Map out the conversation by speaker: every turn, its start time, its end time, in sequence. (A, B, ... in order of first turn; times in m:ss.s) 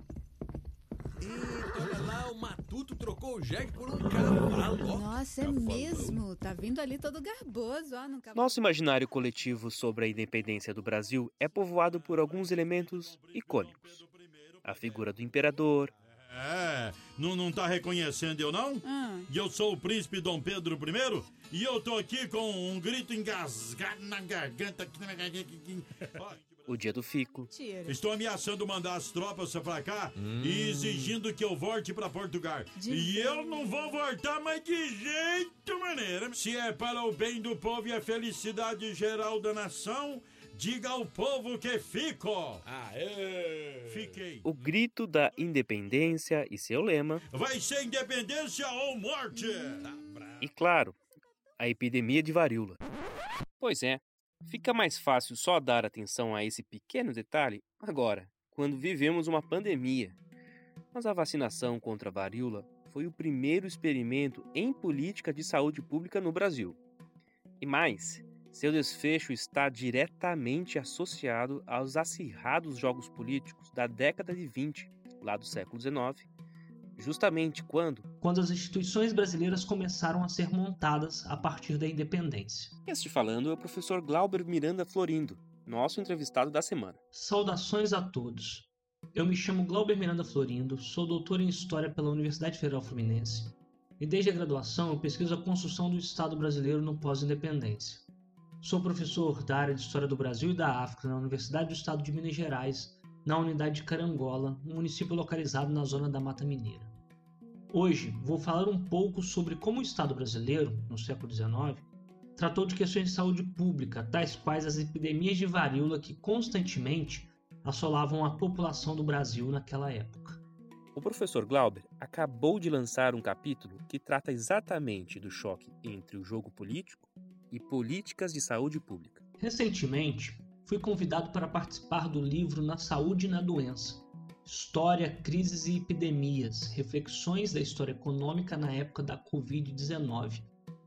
0:01.2-0:06.2 A
0:04.7-0:08.6 B
0:08.3-0:14.0 C
0:11.9-0:15.0 D
0:14.6-0:15.9 C
0:16.3-0:26.9 D
0:18.8-0:19.3 B
0:26.7-0:27.5 C
0:27.5-0:28.0 B
0:27.9-0:42.6 D
0:30.2-0:31.2 A
0:32.8-0:33.8 B
0:42.6-0:44.2 A
0:43.9-0:44.5 D
0:44.4-0:47.2 C
0:47.3-0:49.9 D
0:49.9-0:50.4 A
0:50.4-0:51.0 C
0:51.6-0:52.8 C
0:53.6-1:00.2 C
1:00.9-1:06.8 C
1:07.6-1:16.3 C
1:17.0-1:18.1 C
1:18.2-1:22.8 E
1:22.9-1:27.0 C
1:27.1-1:38.1 E
1:38.6-1:46.9 E
1:47.7-1:51.8 E
1:52.4-2:00.4 E
2:01.0-2:09.2 C
2:09.4-2:20.5 E